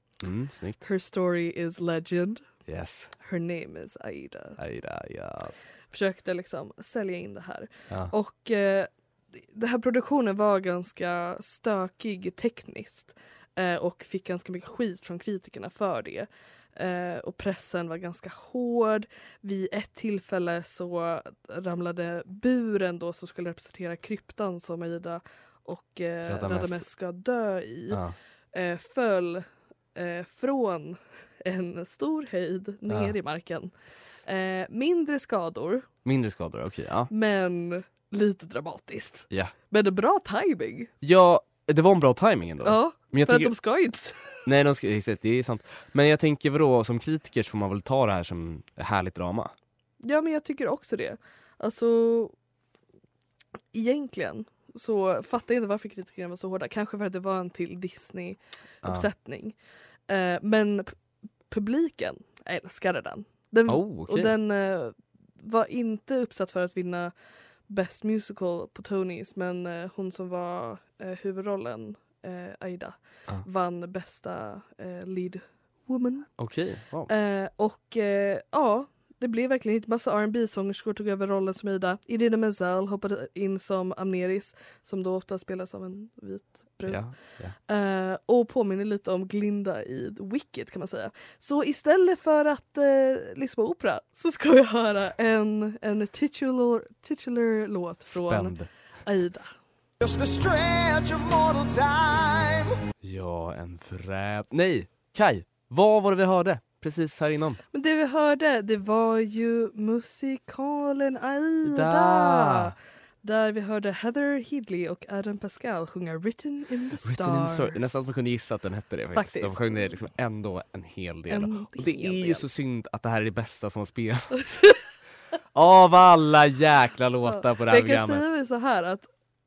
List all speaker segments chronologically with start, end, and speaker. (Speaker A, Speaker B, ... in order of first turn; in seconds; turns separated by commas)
Speaker A: 0.2-0.9, Speaker B: 0.8-2.4, Speaker A: 2.6-3.1, Speaker B: 3.2-4.6, Speaker A: 4.6-5.6, Speaker B: 5.9-28.0, Speaker A: 26.3-26.9, Speaker A: 27.9-28.1, Speaker B: 28.5-35.9, Speaker A: 32.9-33.1, Speaker A: 36.0-37.1, Speaker B: 37.1-40.9, Speaker A: 41.0-43.5, Speaker B: 42.6-44.4, Speaker A: 44.4-49.5, Speaker B: 50.0-52.4, Speaker B: 53.7-59.5, Speaker B: 60.1-76.4, Speaker A: 63.7-64.3, Speaker A: 76.4-77.1, Speaker B: 77.1-99.6, Speaker A: 86.9-87.5, Speaker A: 98.1-98.7, Speaker C: 100.0-102.7, Speaker A: 103.0-107.6, Speaker B: 107.7-118.1, Speaker A: 111.6-112.7, Speaker A: 117.0-124.4, Speaker B: 119.1-120.0, Speaker B: 121.3-122.4, Speaker B: 124.4-124.8, Speaker A: 125.5-128.2, Speaker B: 127.3-129.1